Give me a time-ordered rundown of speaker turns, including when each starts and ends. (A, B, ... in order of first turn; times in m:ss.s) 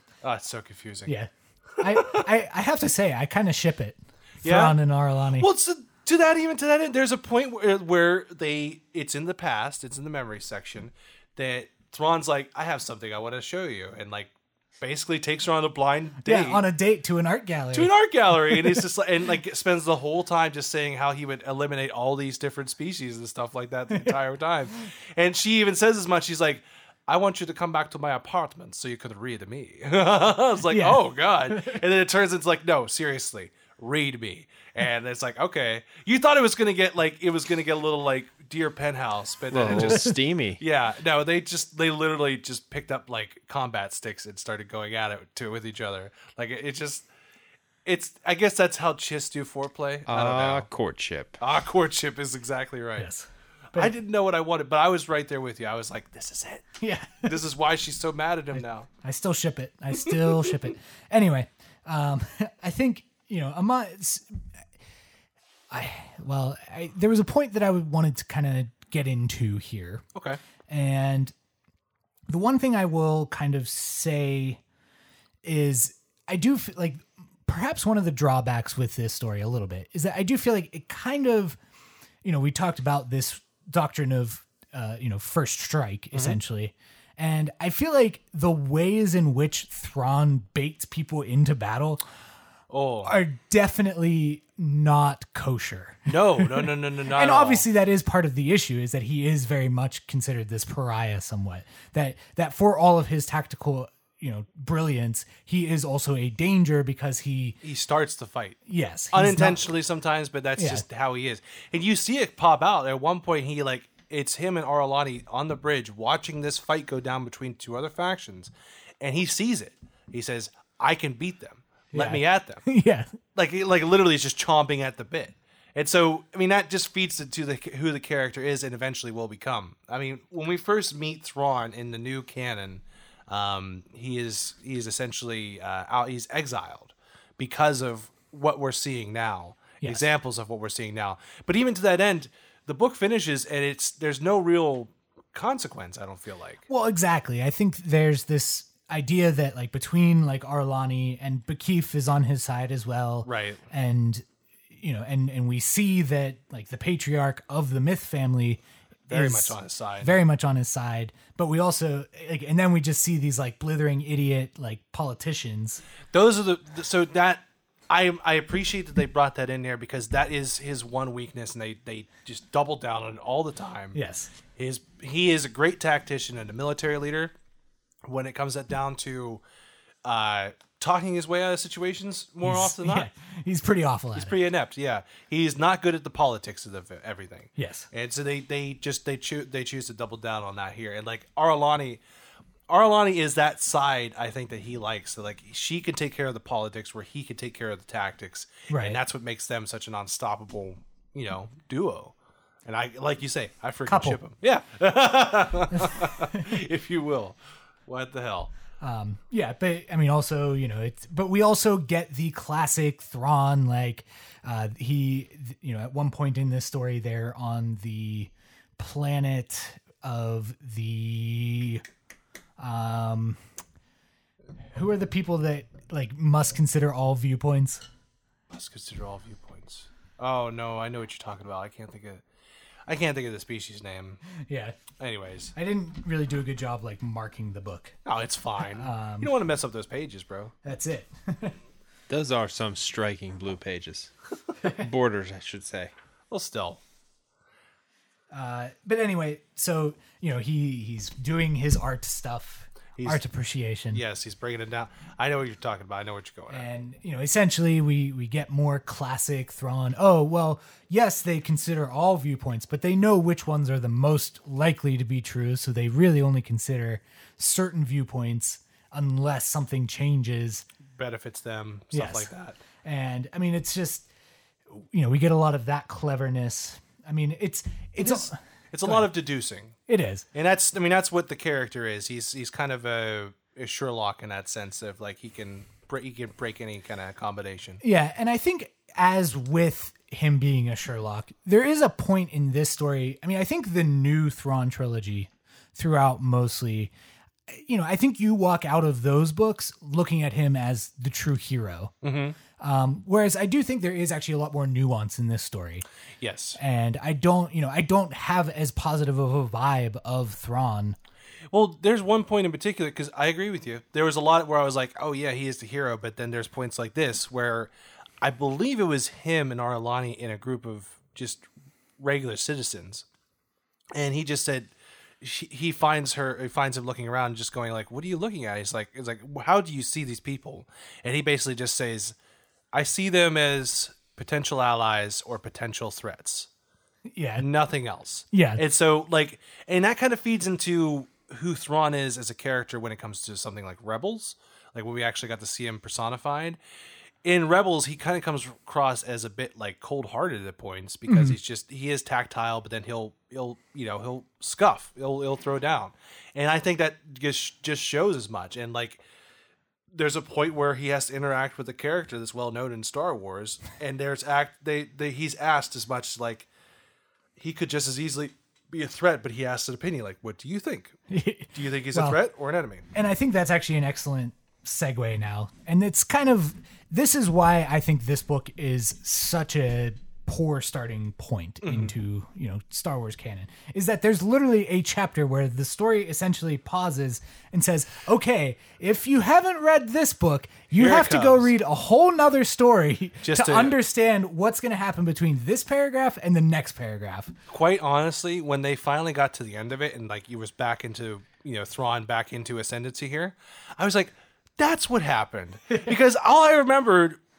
0:00.2-0:01.2 A
0:01.1-0:05.5 B
0:01.8-0:02.3 A
0:04.4-0:04.8 A
0:05.4-0:16.6 A
0:16.2-0:18.8 B
0:17.7-0:47.1 A
0:30.7-0:31.8 B
0:39.5-0:40.6 C
0:39.7-0:40.2 B
0:47.9-0:50.7 A
0:50.1-0:51.4 C
0:51.4-0:53.1 A
0:53.0-0:53.9 B
0:53.7-0:56.7 A
0:56.8-0:57.4 B
0:57.2-0:58.9 A
0:58.6-1:04.4 B
1:00.0-1:00.5 A
1:05.7-1:10.0 B
1:10.1-1:10.4 A
1:10.7-1:11.3 B
1:12.3-1:14.6 B
1:15.4-1:21.6 B
1:22.2-1:32.0 B
1:26.1-1:26.4 A
1:32.7-1:33.2 A
1:33.0-1:47.6 B
1:36.1-1:37.7 A
1:47.6-1:48.6 A
1:48.7-1:49.6 B
1:49.1-2:02.7 A
1:50.6-1:50.8 B
2:01.9-2:03.2 B
2:03.3-2:26.7 A
2:26.7-2:45.8 B
2:33.2-2:33.6 A
2:39.1-2:40.2 A
2:46.1-2:54.0 A
2:53.9-2:54.3 B
2:54.6-2:57.3 A
2:58.1-2:59.4 A
3:00.0-3:03.1 A
3:02.4-3:04.4 B
3:04.2-3:12.0 A
3:07.6-3:07.9 B
3:12.7-3:22.2 A
3:18.7-3:19.0 B
3:22.7-3:28.5 A
3:23.9-3:24.2 B
3:25.7-3:26.6 B
3:28.8-3:41.8 B
3:42.6-3:43.4 B
3:44.7-3:47.8 B
3:48.5-3:52.2 A
3:52.9-3:54.2 A
3:54.4-3:54.8 B
3:55.0-3:55.5 A
3:55.6-3:58.0 B
3:58.0-4:00.5 A
3:58.7-3:59.3 B
4:00.6-4:01.6 B
4:02.1-4:05.9 C
4:06.3-4:06.8 A
4:08.3-4:14.0 B
4:13.0-4:13.2 A
4:13.9-4:16.7 A
4:16.5-4:30.7 B
4:31.0-4:32.6 A
4:31.9-4:32.3 B
4:32.8-4:34.1 B
4:34.7-4:39.1 B
4:38.0-4:39.8 A
4:39.9-4:40.2 B
4:40.3-4:47.8 A
4:47.8-4:56.9 B
4:57.5-5:01.9 B
5:02.0-5:02.4 A
5:02.6-5:05.8 B
5:06.2-5:06.6 A
5:06.6-5:11.0 B
5:11.5-5:17.7 A
5:18.2-5:21.5 A
5:22.0-5:23.0 A
5:24.0-5:32.2 A
5:32.7-5:36.5 A
5:37.1-5:37.5 B
5:37.4-5:46.6 A
5:38.3-5:38.6 B
5:47.2-5:59.0 A
5:51.1-5:51.4 B
5:59.9-6:06.5 A
6:07.4-6:11.0 A
6:11.1-6:12.2 B
6:11.5-6:12.9 A
6:12.9-6:37.3 B
6:21.6-6:22.0 A
6:30.8-6:31.5 A
6:33.2-6:33.8 A
6:37.5-6:47.2 A